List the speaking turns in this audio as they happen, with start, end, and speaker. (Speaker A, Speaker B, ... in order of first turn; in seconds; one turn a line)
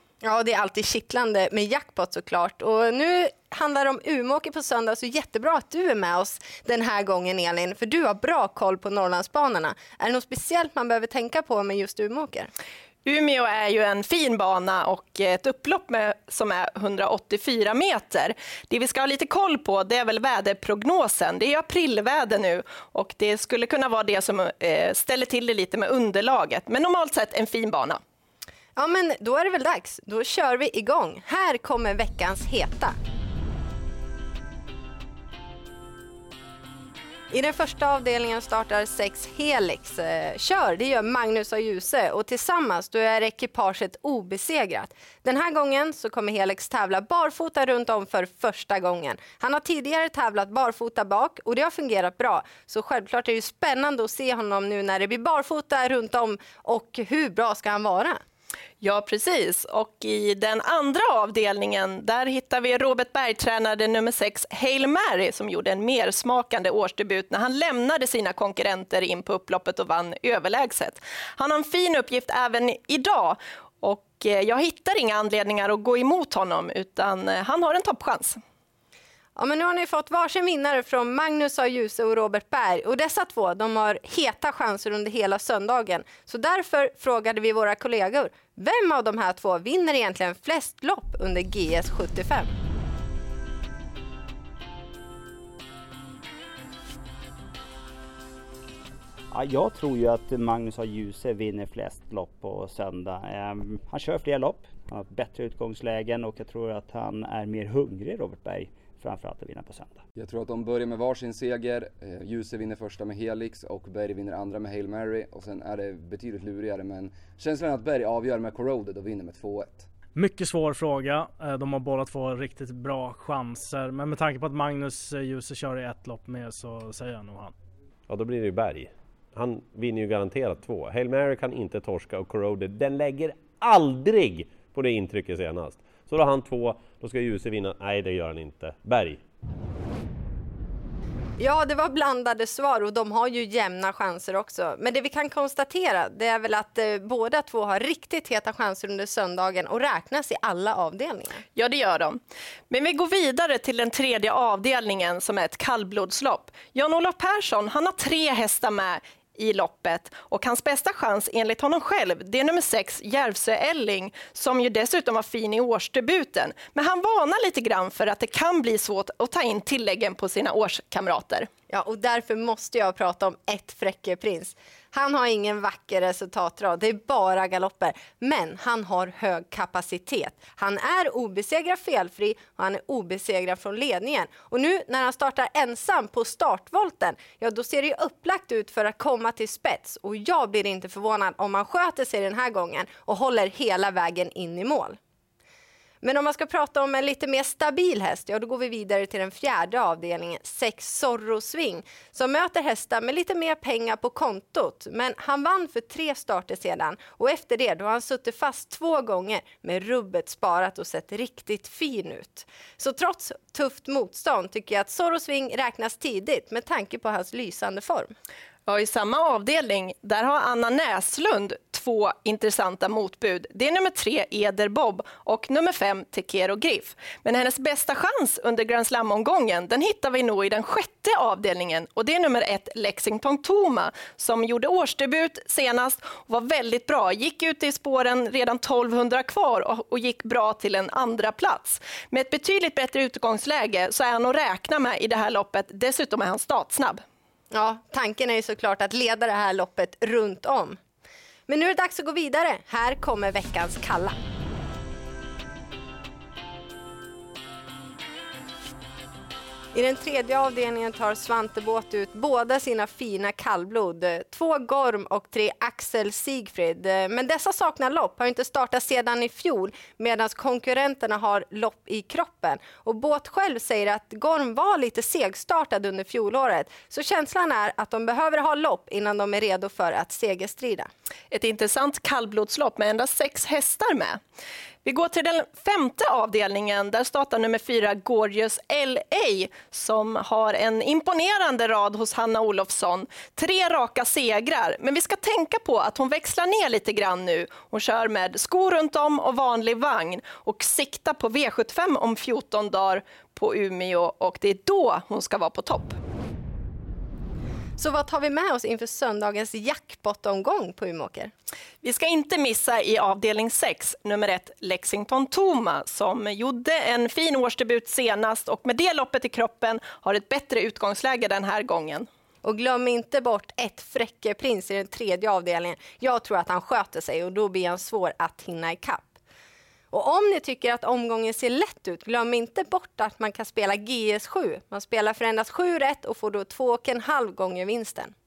Speaker A: 0.2-12.5
Speaker B: 13.1-28.0
Speaker A: 28.8-33.0
Speaker A: 37.3-58.2
Speaker B: 58.8-78.4
Speaker A: 79.4-92.5
Speaker C: 99.3-110.0
Speaker D: 110.2-119.9
Speaker E: 120.2-127.5
Speaker F: 128.1-139.2
Speaker A: 141.4-151.4
Speaker B: 151.6-152.2
Speaker B: 152.7-171.5
Speaker A: 171.7-195.0
Speaker A: 196.0-218.1
Speaker B: 218.7-247.0
Speaker A: 247.5-250.8
Speaker A: 251.5-254.2
Speaker A: 259.7-280.9
Speaker B: 281.3-284.2
Speaker B: 284.9-306.0
Speaker A: 307.8-311.3
Speaker B: 311.8-322.1
Speaker A: 322.4-329.1
Speaker A: 329.9-338.1